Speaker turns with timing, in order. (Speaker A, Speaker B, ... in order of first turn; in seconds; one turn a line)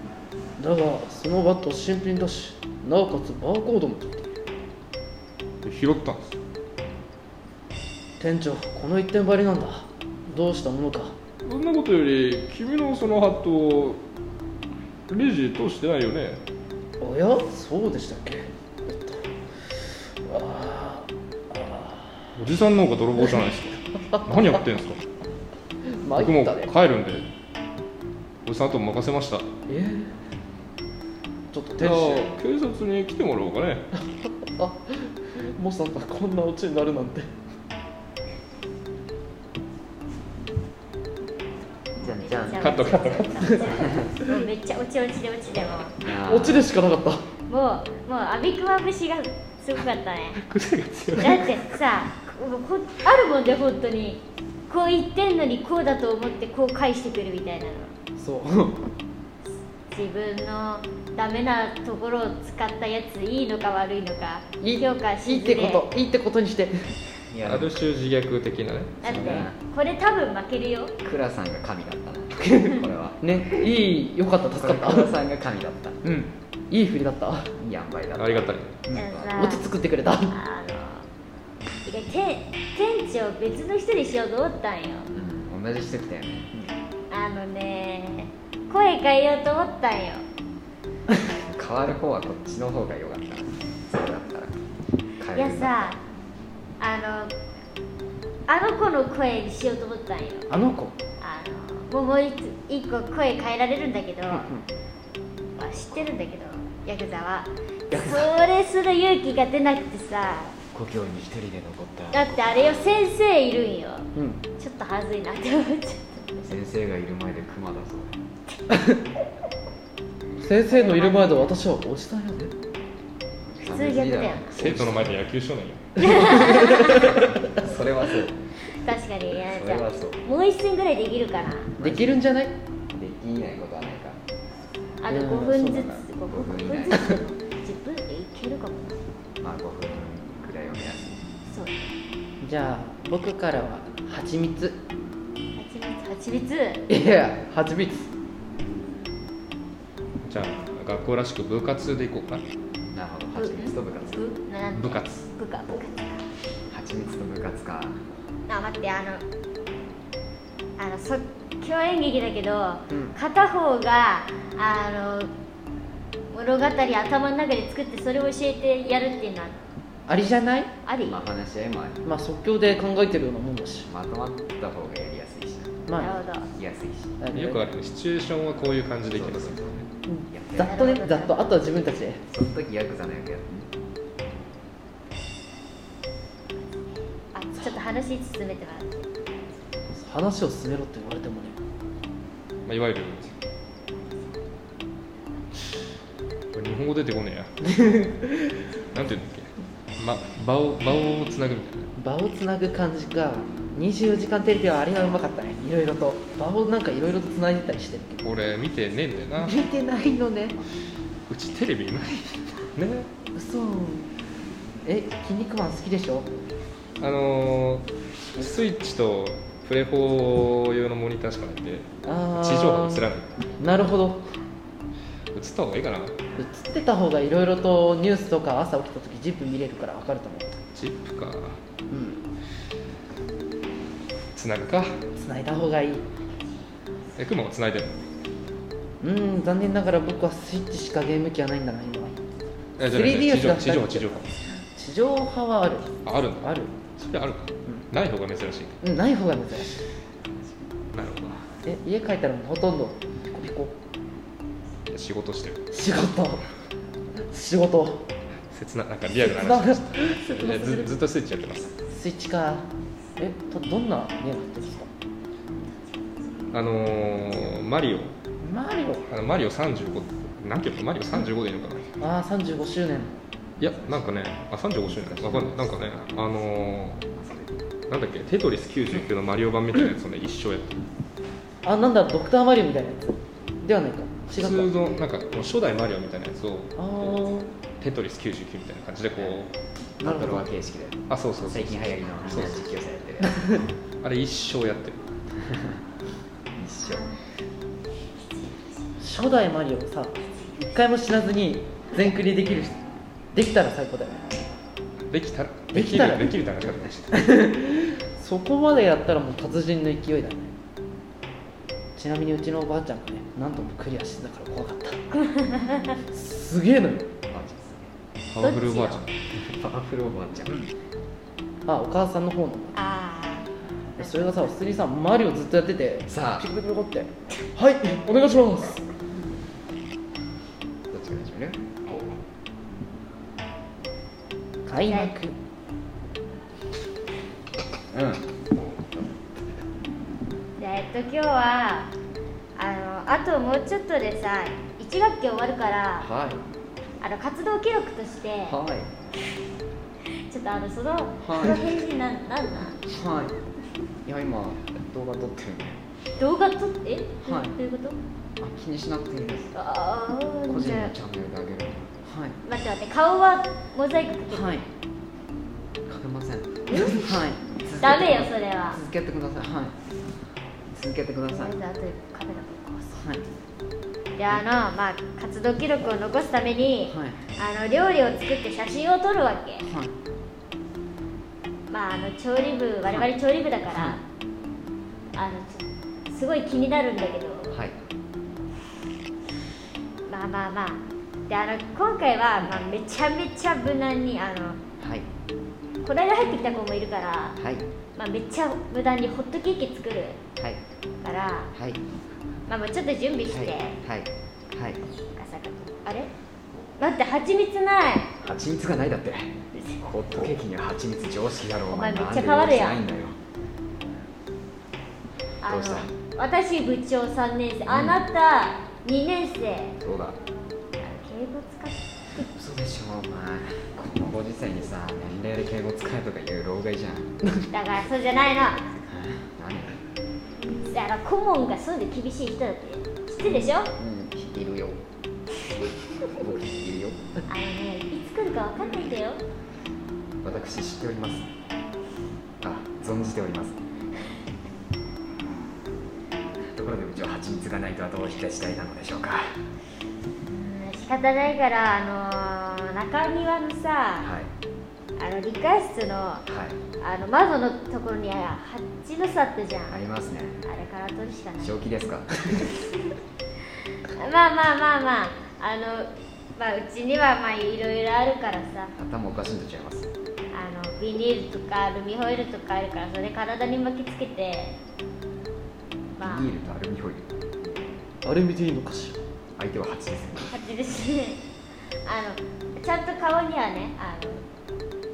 Speaker A: 0.6-4.3
Speaker B: 5.7-6.4
Speaker A: 8.2-11.2
Speaker B: 11.4-14.0
Speaker B: 15.1-16.4
Speaker A: 17.0-22.3
Speaker B: 22.4-25.0
Speaker A: 24.1-24.4
Speaker A: 25.9-26.7
Speaker B: 26.2-27.3
Speaker B: 28.4-29.5
Speaker A: 29.7-30.1
Speaker A: 31.5-32.3
Speaker B: 31.8-33.9
Speaker A: 34.2-37.3
Speaker C: 42.0-43.1
Speaker D: 42.0-46.0
Speaker B: 42.6-43.9
Speaker C: 43.7-44.1
Speaker C: 45.9-46.7
Speaker A: 46.1-47.3
Speaker D: 47.5-50.4
Speaker B: 50.4-51.6
Speaker D: 51.2-57.9
Speaker A: 58.2-58.8
Speaker D: 59.9-65.9
Speaker A: 64.6-66.9
Speaker C: 67.3-67.9
Speaker B: 67.4-69.0
Speaker D: 69.0-70.9
Speaker C: 69.0-69.5
Speaker C: 71.0-73.5
Speaker A: 72.4-75.1
Speaker C: 74.6-76.0
Speaker A: 76.0-77.5
Speaker C: 77.6-79.5
Speaker B: 78.2-78.8
Speaker A: 78.9-80.4
Speaker D: 78.9-79.7
Speaker D: 80.3-81.1
Speaker D: 81.8-85.1
Speaker C: 85.1-86.5
Speaker D: 87.1-90.2
Speaker C: 91.4-94.6
Speaker C: 95.2-96.0
Speaker D: 95.3-96.0
Speaker D: 96.8-97.3
Speaker D: 98.5-100.5
Speaker A: 100.5-101.0
Speaker D: 101.2-104.5
Speaker A: 104.3-104.7
Speaker D: 105.6-110.6
Speaker A: 107.9-108.3
Speaker C: 110.7-112.8
Speaker D: 112.1-116.5
Speaker A: 114.2-114.4
Speaker C: 116.5-118.2
Speaker A: 118.7-119.0
Speaker A: 120.4-122.5
Speaker D: 120.7-121.4
Speaker C: 123.5-125.1
Speaker D: 123.6-124.5
Speaker B: 124.5-126.5
Speaker D: 126.0-127.2
Speaker A: 126.2-127.3
Speaker C: 127.0-128.4
Speaker D: 128.7-131.8
Speaker C: 129.4-130.2
Speaker C: 131.8-132.2
Speaker A: 131.8-132.6
Speaker C: 132.9-134.2
Speaker D: 135.0-139.0
Speaker A: 135.1-136.0
Speaker C: 135.9-137.2
Speaker C: 139.4-141.2
Speaker D: 141.5-142.0
Speaker A: 142.4-144.8
Speaker D: 145.6-146.8
Speaker A: 146.9-148.1
Speaker B: 150.2-152.4
Speaker C: 152.9-154.3
Speaker D: 153.3-156.3
Speaker B: 154.7-155.2
Speaker C: 156.7-158.0
Speaker D: 158.5-159.2
Speaker D: 160.8-165.3
Speaker A: 162.9-163.2
Speaker D: 166.3-169.6
Speaker A: 170.1-170.7
Speaker D: 170.8-171.2
Speaker C: 171.0-172.0
Speaker A: 172.1-173.9
Speaker C: 173.9-175.8
Speaker A: 175.9-176.2
Speaker D: 176.0-176.5
Speaker C: 176.5-177.2
Speaker A: 177.2-177.6
Speaker B: 177.3-179.9
Speaker C: 179.1-180.9
Speaker A: 180.1-182.2
Speaker D: 180.6-181.4
Speaker C: 182.3-183.7
Speaker D: 187.3-189.1
Speaker A: 189.9-191.6
Speaker B: 192.7-193.3
Speaker B: 196.5-197.5
Speaker A: 197.6-198.6
Speaker B: 198.9-201.9
Speaker A: 202.0-208.2
Speaker B: 208.2-209.6
Speaker A: 209.4-210.6
Speaker B: 211.3-213.1
Speaker A: 213.3-214.1
Speaker A: 214.8-216.3
Speaker B: 217.0-223.4
Speaker A: 222.0-223.1
Speaker A: 223.6-224.3
Speaker B: 225.3-226.2
Speaker A: 226.4-230.6
Speaker B: 230.7-231.6
Speaker A: 231.9-232.2
Speaker B: 234.3-235.0
Speaker A: 235.2-236.1
Speaker B: 237.2-238.0
Speaker A: 239.0-242.1
Speaker B: 242.8-244.3
Speaker A: 242.8-246.7
Speaker B: 246.1-248.8
Speaker A: 248.8-249.8
Speaker B: 250.9-251.4
Speaker A: 251.7-253.8
Speaker B: 254.9-255.6
Speaker A: 255.7-256.4
Speaker A: 257.3-258.1
Speaker B: 258.5-261.7
Speaker A: 259.1-260.9
Speaker A: 261.9-264.9
Speaker B: 266.5-268.1
Speaker A: 268.4-269.0
Speaker B: 269.1-271.9
Speaker A: 272.0-273.1
Speaker B: 273.6-277.0
Speaker C: 273.6-274.1
Speaker C: 274.9-276.5
Speaker C: 277.0-277.6
Speaker B: 277.9-280.8
Speaker A: 281.6-284.9
Speaker B: 284.3-287.2
Speaker A: 286.8-287.5
Speaker B: 287.8-289.5
Speaker C: 289.1-289.4
Speaker C: 290.0-293.5
Speaker A: 290.0-290.5
Speaker B: 291.1-292.7
Speaker A: 293.2-293.6
Speaker B: 294.0-295.0
Speaker C: 295.4-295.8
Speaker C: 296.6-297.1
Speaker A: 299.0-302.8
Speaker A: 303.3-304.4
Speaker B: 305.1-307.2
Speaker A: 305.7-306.3
Speaker A: 307.1-310.5
Speaker A: 312.0-315.0
Speaker D: 315.1-316.0
Speaker A: 316.1-317.1
Speaker C: 317.3-317.9
Speaker B: 318.3-319.1
Speaker D: 318.4-319.1
Speaker C: 319.3-320.6
Speaker A: 321.7-322.8
Speaker D: 322.7-323.5
Speaker A: 324.0-328.8
Speaker D: 324.0-324.5
Speaker C: 326.1-326.5
Speaker C: 330.9-331.6
Speaker D: 331.9-332.1
Speaker A: 334.7-335.4
Speaker D: 334.8-335.1
Speaker C: 337.9-338.2
Speaker D: 340.6-341.9
Speaker D: 342.6-346.1
Speaker C: 346.0-346.4
Speaker D: 347.0-348.6
Speaker C: 348.4-348.9
Speaker D: 350.0-352.8
Speaker C: 351.2-351.8
Speaker C: 352.9-353.4
Speaker C: 354.1-355.8
Speaker D: 356.2-358.0
Speaker C: 357.2-357.6
Speaker C: 358.4-359.6
Speaker D: 359.6-360.9
Speaker C: 360.5-362.4
Speaker D: 362.4-364.7
Speaker C: 364.3-364.6
Speaker C: 365.9-369.8
Speaker D: 366.7-367.2
Speaker D: 367.8-368.8
Speaker C: 370.7-371.6
Speaker D: 371.3-373.0
Speaker C: 373.0-373.2
Speaker D: 374.2-379.7
Speaker C: 376.9-377.2
Speaker C: 379.6-379.9
Speaker D: 381.7-384.0
Speaker C: 383.7-384.0
Speaker D: 385.1-387.6
Speaker C: 387.5-387.8
Speaker D: 390.1-394.6
Speaker C: 394.8-395.1
Speaker D: 395.8-397.4
Speaker C: 397.4-397.7
Speaker D: 398.0-400.2
Speaker D: 401.0-401.5
Speaker C: 401.5-401.8
Speaker D: 402.5-403.8
Speaker C: 403.3-404.9
Speaker D: 405.1-406.1
Speaker D: 406.8-408.1
Speaker C: 408.2-413.2
Speaker D: 411.7-412.8
Speaker D: 415.4-419.8
Speaker C: 415.4-415.9
Speaker C: 417.7-418.0
Speaker C: 419.8-420.2
Speaker D: 420.8-422.2
Speaker C: 422.2-427.1
Speaker D: 427.5-428.7
Speaker C: 428.8-429.8
Speaker D: 430.7-433.7
Speaker C: 433.2-434.8
Speaker C: 436.1-437.0
Speaker D: 437.3-439.2
Speaker C: 440.2-441.3
Speaker C: 442.4-443.6
Speaker C: 446.5-449.4
Speaker D: 450.3-454.1
Speaker C: 454.0-454.3
Speaker D: 455.0-456.2
Speaker C: 456.3-456.6
Speaker D: 456.8-459.8
Speaker C: 459.7-460.4
Speaker D: 460.5-461.6
Speaker C: 461.4-462.5
Speaker D: 463.9-468.7
Speaker C: 468.8-469.9
Speaker D: 470.3-474.6
Speaker D: 476.0-476.3
Speaker C: 476.0-477.1
Speaker A: 478.0-479.0
Speaker C: 479.4-480.3
Speaker D: 480.3-481.2
Speaker D: 481.9-484.2